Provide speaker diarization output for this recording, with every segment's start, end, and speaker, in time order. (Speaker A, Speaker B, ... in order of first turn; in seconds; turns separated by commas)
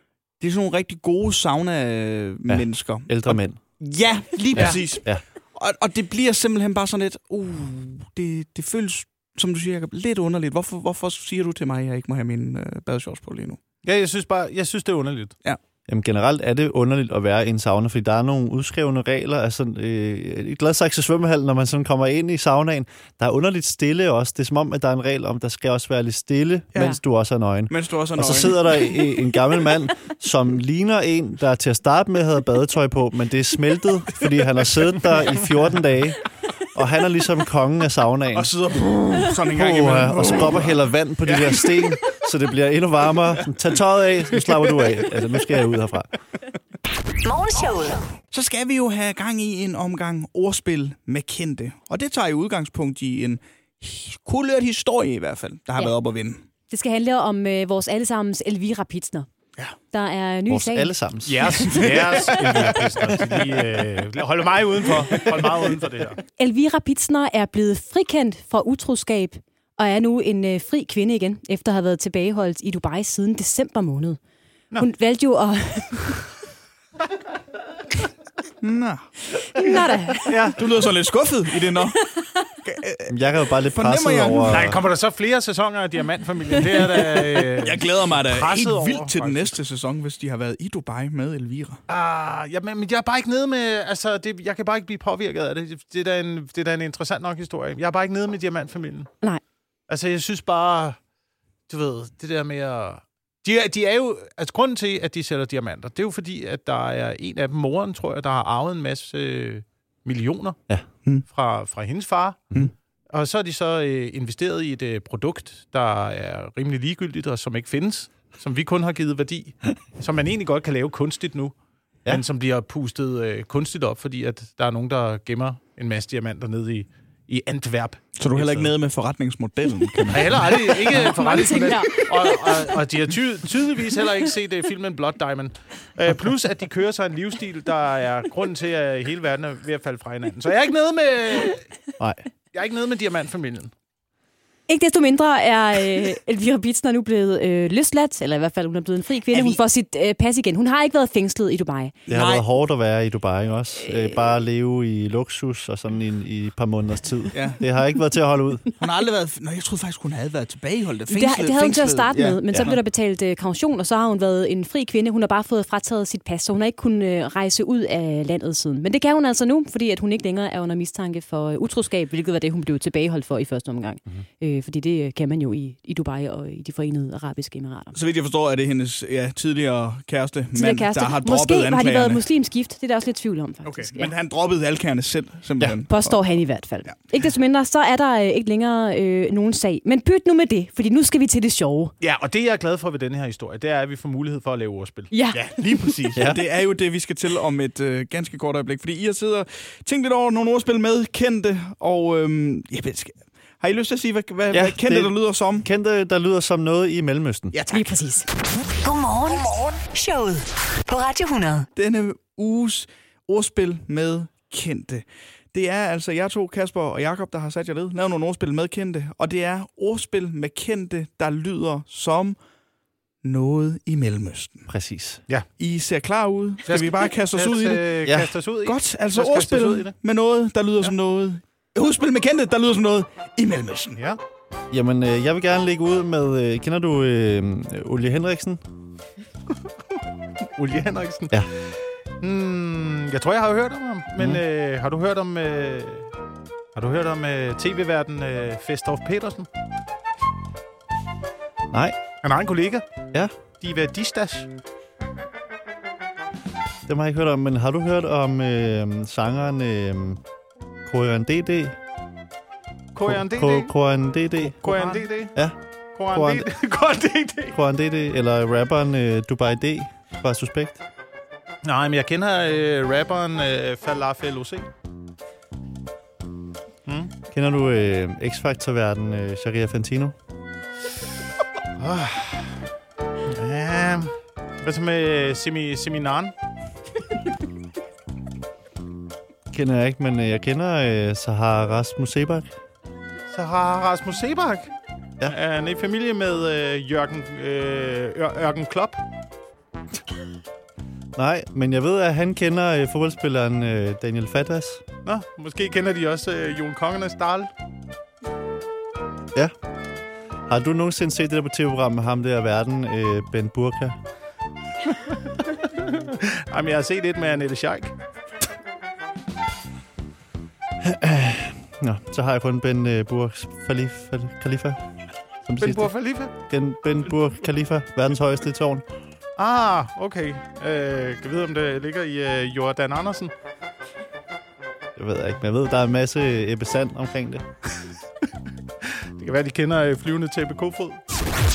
Speaker A: 0.4-13.6, Speaker B: 2.5-3.6, Speaker B: 4.5-5.2, Speaker C: 4.5-4.8, Speaker C: 13.8-15.3, Speaker B: 15.9-38.5, Speaker A: 26.7-27.0, Speaker A: 27.7-28.8, Speaker A: 38.3-41.9, Speaker B: 39.5-46.1, Speaker A: 44.4-45.1, Speaker D: 47.2-48.0, Speaker A: 48.3-56.4, Speaker E: 56.7-59.3, Speaker E: 59.9-60.9, Speaker B: 60.5-61.9, Speaker C: 61.2-66.2, Speaker A: 61.6-62.3, Speaker B: 63.0-63.5, Speaker E: 66.4-74.2, Speaker E: 74.8-76.2, Speaker A: 78.6-84.8, Speaker E: 79.5-80.3, Speaker C: 80.2-80.6, Speaker B: 83.1-84.8, Speaker C: 84.5-89.5, Speaker A: 87.5-91.8, Speaker C: 91.9-99.1, Speaker C: 99.9-101.0, Speaker C: 101.7-110.6, Speaker C: 111.3-112.6, Speaker C: 113.1-121.5, Speaker C: 122.0-128.7, Speaker A: 128.2-131.1, Speaker C: 130.1-141.7, Speaker E: 130.9-132.4, Speaker C: 142.5-143.7, Speaker E: 144.7-151.9, Speaker A: 149.3-149.6, Speaker A: 152.1-152.5, Speaker B: 152.1-158.7, Speaker E: 153.8-154.2, Speaker A: 157.3-157.6, Speaker A: 158.8-162.8, Speaker E: 161.1-177.9, Speaker A: 177.9-182.2, Speaker E: 180.5-184.1, Speaker A: 183.6-186.1, Speaker E: 185.8-191.9, Speaker C: 192.0-195.1, Speaker E: 195.1-196.0, Speaker A: 195.3-205.7, Speaker B: 196.1-196.4, Speaker B: 204.5-207.6, Speaker A: 207.5-208.0, Speaker E: 207.7-208.3, Speaker D: 208.8-211.7, Speaker A: 211.7-222.3, Speaker A: 223.2-224.7, Speaker B: 224.7-225.2, Speaker A: 225.6-227.9, Speaker C: 226.7-229.9, Speaker B: 228.0-228.3, Speaker A: 228.6-234.0, Speaker B: 234.7-238.6, Speaker C: 240.4-241.4, Speaker C: 242.2-246.1, Speaker B: 244.2-244.4, Speaker C: 246.7-249.5, Speaker B: 251.7-252.0, Speaker C: 252.2-252.8, Speaker C: 253.6-254.5, Speaker B: 256.9-260.2, Speaker B: 260.9-261.8, Speaker C: 262.9-263.7, Speaker B: 263.0-265.5, Speaker C: 264.4-265.4, Speaker C: 265.9-267.6, Speaker B: 266.1-266.5, Speaker B: 267.5-270.8, Speaker C: 271.6-274.7, Speaker C: 276.9-277.1, Speaker B: 277.3-280.1, Speaker C: 281.8-282.6, Speaker C: 283.2-286.3, Speaker B: 289.5-292.5, Speaker C: 293.3-294.7, Speaker C: 295.2-299.0, Speaker B: 301.1-304.8, Speaker C: 305.1-307.5, Speaker B: 310.5-313.9, Speaker C: 315.5-317.9, Speaker B: 320.8-324.8, Speaker B: 325.4-325.9, Speaker C: 325.6-326.3, Speaker B: 326.4-328.9, Speaker C: 329.4-333.3, Speaker B: 334.9-337.4, Speaker C: 338.8-341.0